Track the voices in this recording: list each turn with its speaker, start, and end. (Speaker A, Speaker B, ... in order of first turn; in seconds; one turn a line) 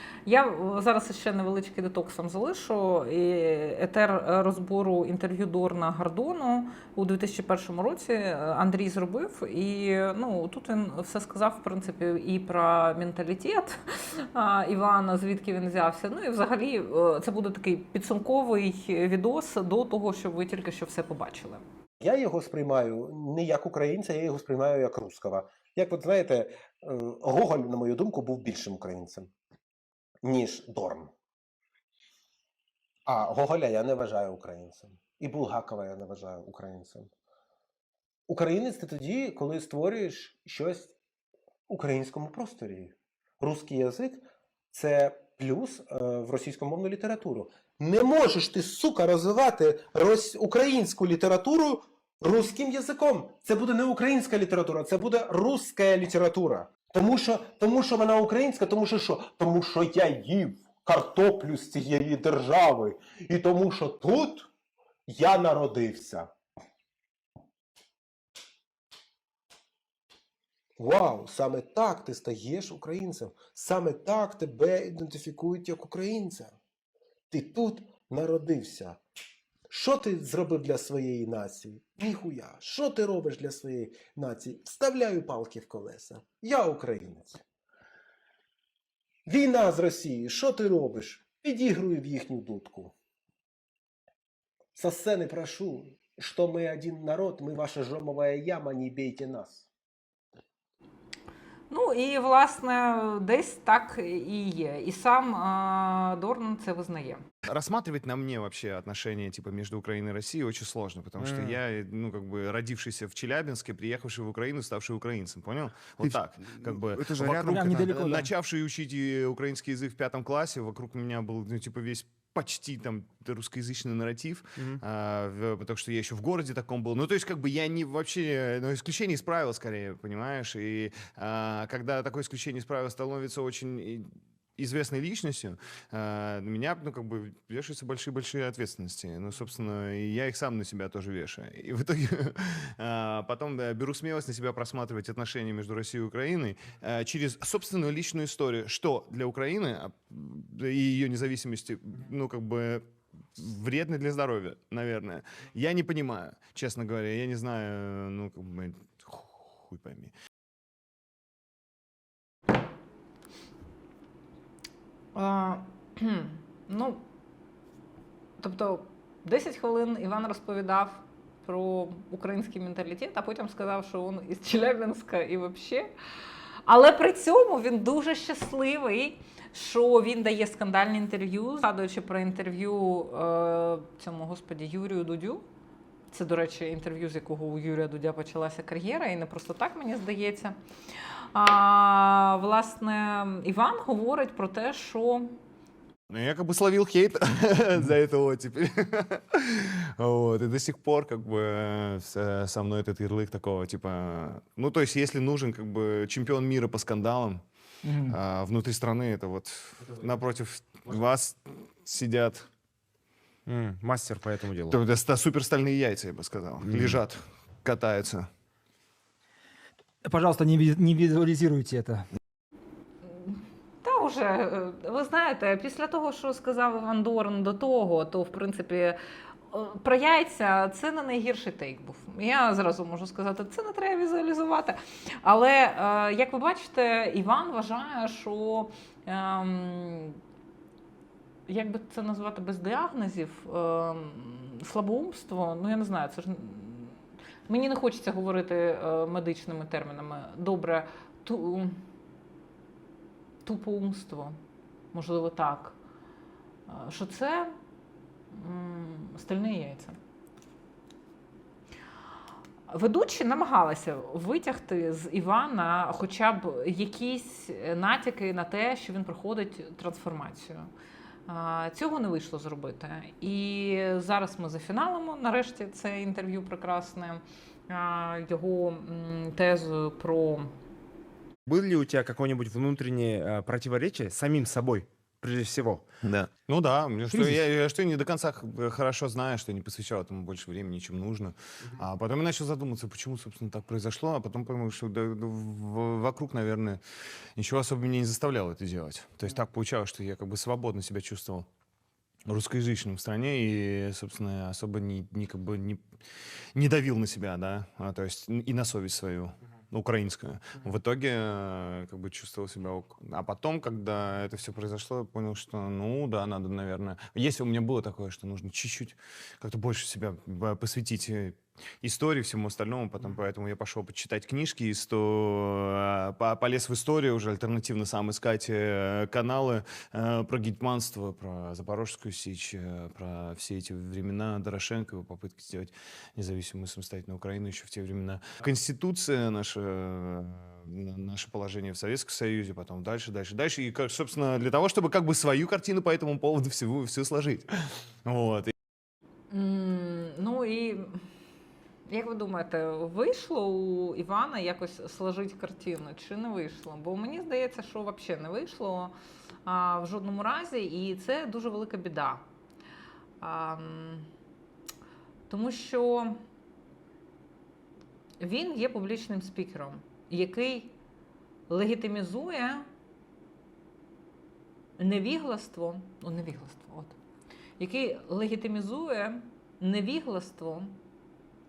Speaker A: 0.3-21.6
Speaker B: 22.0-29.3
Speaker B: 30.2-31.1
Speaker B: 33.1-37.1
Speaker B: 38.3-41.0
Speaker B: 41.7-64.5
Speaker B: 65.1-66.3
Speaker B: 70.8-76.5
Speaker B: 77.3-79.0
Speaker B: 79.7-87.4
Speaker B: 89.3-92.9
Speaker B: 94.8-99.7
Speaker A: 101.7-107.2
Speaker C: 107.5-160.1
Speaker D: 111.2-111.6
Speaker D: 116.0-118.0
Speaker E: 117.4-118.3
Speaker A: 165.2-167.1
Speaker A: 168.4-175.9
Speaker A: 176.7-185.5
Speaker A: 186.1-190.6
Speaker A: 191.3-195.4
Speaker C: 196.1-207.4
Speaker E: 207.8-208.2
Speaker C: 208.1-212.5
Speaker D: 213.5-214.8
Speaker C: 214.7-218.3
Speaker E: 220.0-222.1
Speaker A: 223.1-229.0
Speaker A: 229.5-240.2
Speaker A: 241.5-247.0
Speaker A: 247.5-251.8
Speaker A: 253.4-254.4
Speaker A: 254.9-255.8
Speaker A: 256.7-257.5
Speaker A: 258.3-260.0
Speaker A: 262.7-270.7
Speaker A: 271.3-280.5
Speaker D: 281.5-285.9
Speaker C: 286.0-296.8
Speaker C: 297.4-301.5
Speaker C: 302.3-306.0
Speaker C: 306.6-348.5
Speaker A: 349.3-351.0
Speaker A: 351.9-358.9
Speaker A: 359.5-362.2
Speaker A: 363.2-364.1
Speaker A: 365.3-366.2
Speaker A: 368.2-370.8
Speaker A: 371.5-372.7
Speaker A: 374.8-377.0
Speaker A: 377.6-380.8